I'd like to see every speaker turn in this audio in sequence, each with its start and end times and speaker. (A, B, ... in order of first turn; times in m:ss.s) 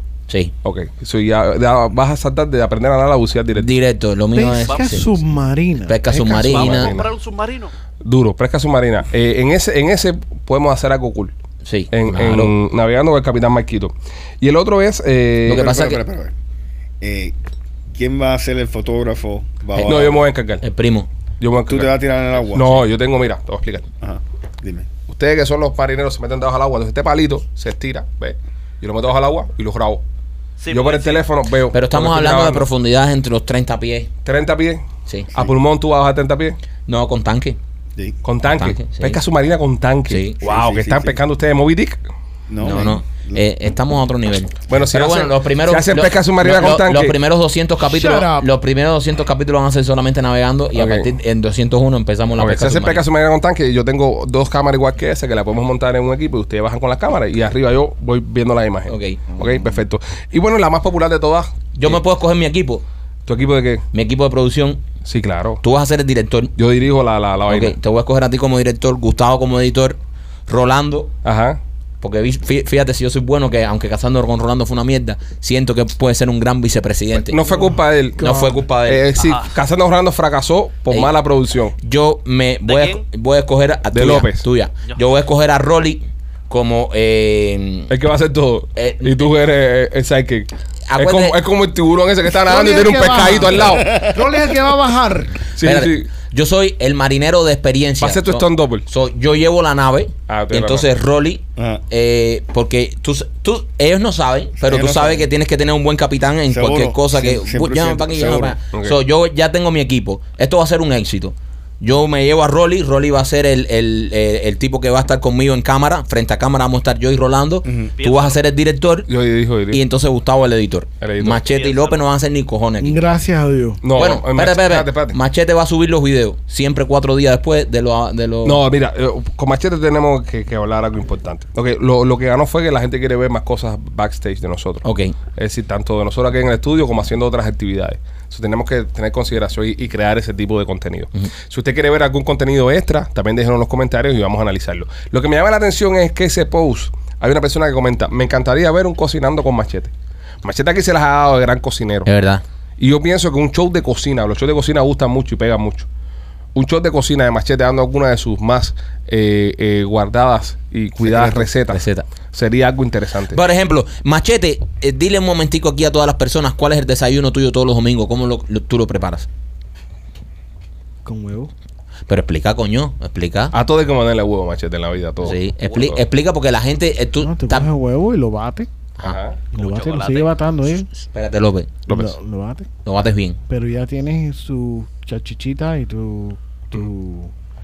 0:00.3-0:00.5 A
0:00.6-0:03.7 B
0:03.6-0:05.2 A
0:04.3-0:06.6 C
0:05.8-0:06.9 A
0:06.2-0:07.7 D
0:06.5-0:07.1 B
0:08.0-0:11.3 B
0:11.6-0:12.6 A
0:11.9-0:15.8 B
0:15.5-0:16.0 A
0:15.5-0:16.3 E
0:17.0-0:17.4 E
0:17.9-0:20.3 E
0:19.8-0:20.0 A
0:19.8-0:20.6 B
0:20.6-0:21.1 A
0:21.4-0:21.9 B
0:21.7-0:22.8 E
0:22.5-0:23.9 B
0:24.0-0:24.9 E
0:25.1-0:30.0 B
0:30.6-0:31.3 D
0:30.7-0:32.7 B
0:31.7-0:34.1 A
0:34.2-0:36.6 B
0:35.1-0:35.3 A
0:36.9-0:37.6 A
0:38.2-0:42.0 B
0:38.5-0:39.2 A
0:40.1-0:40.4 A
0:40.4-0:41.2 E
0:42.5-0:43.4 E
0:42.6-0:53.1 A
0:44.7-0:47.2 B
0:47.8-0:48.5 C
0:50.8-0:51.1 B
0:52.4-1:02.0 B
0:58.9-0:59.4 A
1:01.8-1:02.8 A
1:03.3-1:03.8 B
1:03.9-1:04.8 A
1:05.0-1:05.6 B
1:05.6-1:06.6 A
1:06.6-1:07.8 B
1:07.5-1:11.1 A
1:11.2-1:11.6 B
1:12.0-1:17.4 A
1:17.2-1:21.8 B
1:17.5-1:18.6 C
1:18.2-1:19.2 A
1:19.2-1:19.6 D
1:21.8-1:27.9 A
1:22.7-1:23.0 D
1:23.9-1:24.4 B
1:27.9-1:34.0 B
1:28.8-1:29.4 A
1:30.9-1:31.4 A
1:32.4-1:35.4 C
1:33.6-1:34.3 E
1:35.6-1:36.1 B
1:35.6-1:59.1 A
1:38.0-1:38.8 B
1:40.3-1:40.9 B
1:41.6-1:41.8 E
1:44.6-1:45.3 E
1:46.5-1:48.6 E
1:48.7-1:49.0 B
1:57.6-1:57.9 E
1:58.0-1:58.4 D
1:59.1-1:59.8 B
1:59.7-2:03.0 A
2:01.0-2:01.4 B
2:01.5-2:02.0 D
2:02.8-2:03.8 C
2:03.8-2:05.2 B
2:03.9-2:08.6 A
2:08.4-2:32.1 B
2:14.8-2:15.2 A
2:32.0-2:32.4 A
2:32.8-2:35.9 B
2:36.6-2:43.4 B
2:41.0-2:42.1 A
2:43.3-2:49.3 A
2:51.0-2:51.5 C
2:52.1-2:53.5 A
2:53.5-2:56.0 B
2:55.2-2:57.7 A
2:57.2-2:58.7 C
2:59.0-2:59.4 B
2:59.5-3:00.9 C
2:59.5-3:00.3 D
3:01.0-3:01.7 A
3:01.9-3:02.2 B
3:01.9-3:02.7 C
3:02.8-3:03.4 A
3:03.5-3:07.3 C